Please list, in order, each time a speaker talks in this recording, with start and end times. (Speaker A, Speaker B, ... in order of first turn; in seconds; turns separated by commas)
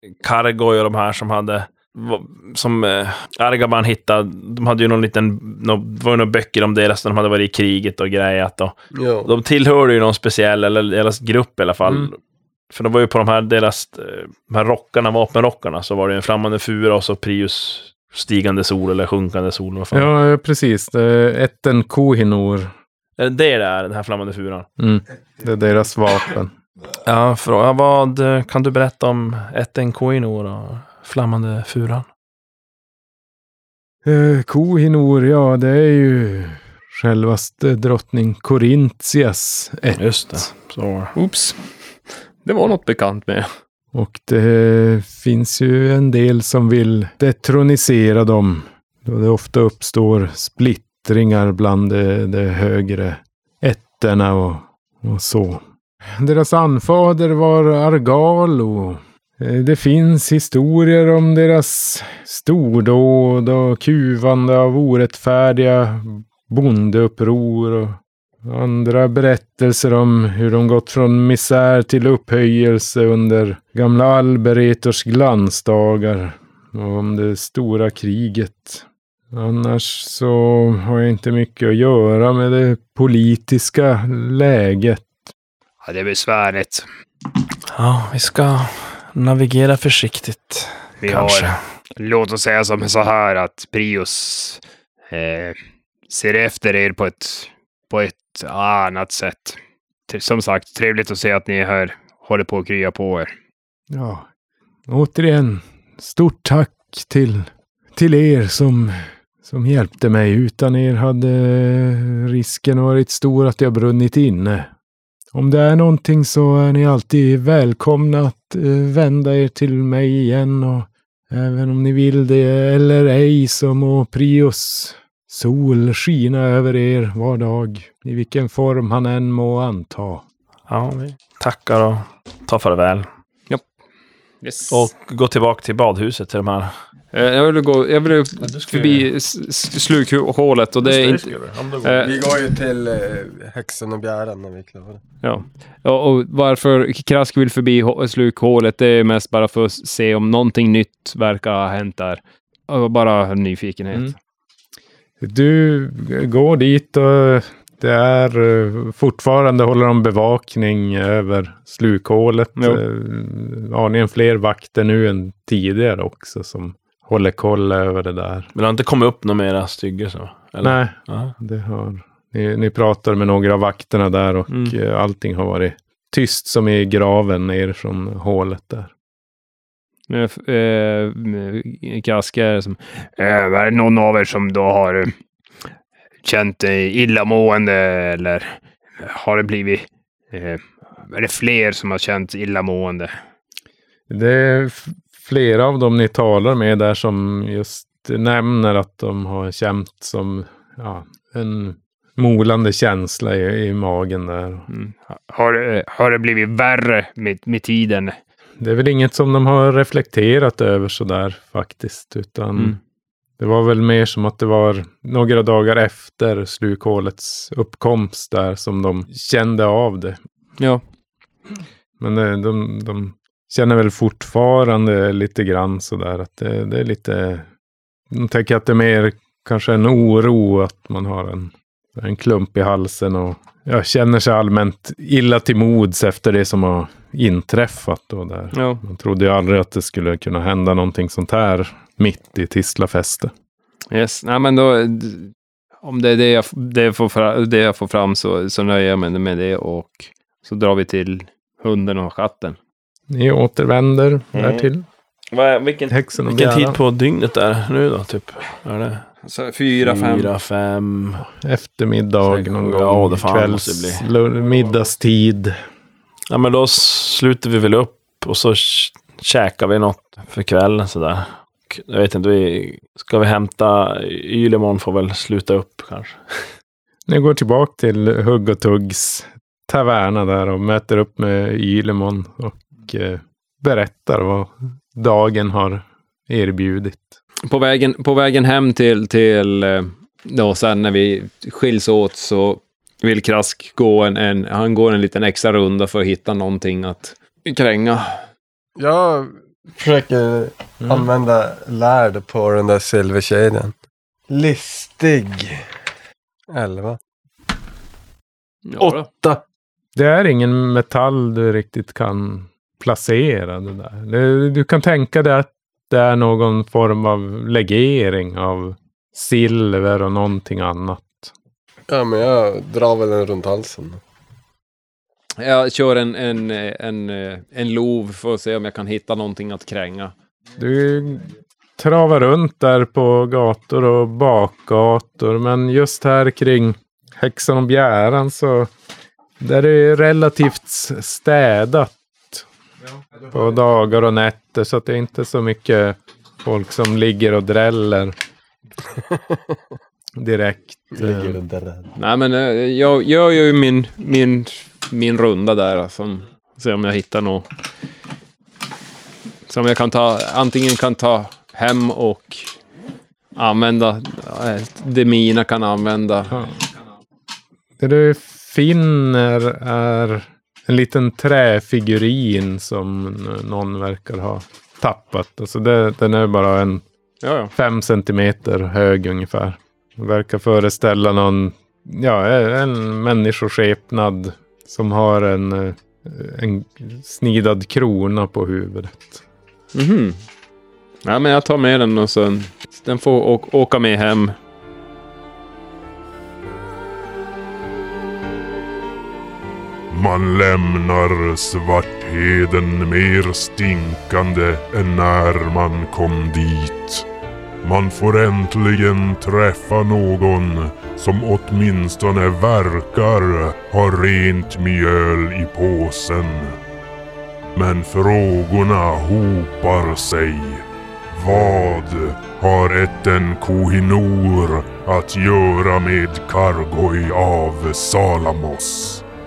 Speaker A: 0.2-12.2, Speaker B: 8.9-9.3, Speaker A: 12.7-20.1, Speaker C: 19.9-22.7, Speaker A: 23.2-24.7, Speaker C: 24.8-26.5, Speaker A: 27.0-32.0, Speaker C: 34.0-40.5, Speaker A: 40.0-41.1, Speaker D: 41.1-41.6, Speaker D: 42.4-43.5, Speaker C: 43.9-55.6, Speaker C: 56.2-85.1, Speaker E: 85.8-86.9, Speaker A: 87.7-91.6, Speaker E: 91.0-103.3, Speaker C: 103.9-104.2, Speaker C: 104.9-114.7, Speaker C: 115.3-130.2, Speaker A: 130.7-133.1, Speaker D: 134.4-134.9, Speaker A: 134.7-136.7, Speaker D: 137.1-142.1, Speaker A: 138.4-139.1, Speaker A: 140.8-142.1, Speaker B: 142.0-145.0, Speaker D: 145.2-154.1, Speaker C: 155.2-168.5, Speaker D: 162.6-162.8, Speaker A: 168.5-171.3, Speaker C: 170.6-178.9, Speaker A: 174.5-174.7, Speaker D: 180.1-182.8, Speaker E: 183.0-185.1, Speaker E: 186.2-193.1, Speaker C: 194.1-204.7, Speaker E: 204.7-208.2, Speaker C: 208.6-212.8, Speaker C: 213.4-220.2, Speaker C: 222.0-227.4, Speaker C: 228.1-243.3, Speaker D: 238.5-238.8, Speaker D: 243.9-245.3, Speaker D: 245.8-252.6, Speaker C: 253.1-254.8, Speaker A: 254.3-254.7, Speaker A: 255.3-259.0, Speaker C: 255.9-256.8, Speaker D: 259.2-260.3, Speaker A: 259.7-261.2, Speaker C: 261.4-265.6, Speaker A: 262.4-264.0, Speaker A: 266.3-276.2, Speaker C: 277.1-287.2, Speaker D: 287.4-298.2, Speaker B: 298.8-303.7, Speaker B: 304.3-305.6, Speaker B: 306.5-307.0, Speaker D: 308.6-309.1, Speaker B: 308.8-309.4, Speaker C: 309.9-321.3, Speaker B: 321.9-324.0, Speaker D: 325.4-330.1, Speaker C: 330.6-338.7, Speaker C: 339.4-342.4, Speaker C: 343.3-348.1, Speaker B: 349.0-349.4, Speaker C: 350.2-351.4, Speaker B: 350.9-351.9, Speaker D: 352.0-357.5, Speaker D: 359.5-362.5, Speaker D: 363.4-366.4, Speaker C: 367.8-376.8, Speaker D: 377.2-377.5, Speaker C: 377.5-389.2, Speaker D: 389.7-390.2, Speaker D: 391.0-394.4, Speaker F: 399.9-407.1, Speaker F: 407.6-416.6, Speaker F: 417.5-429.0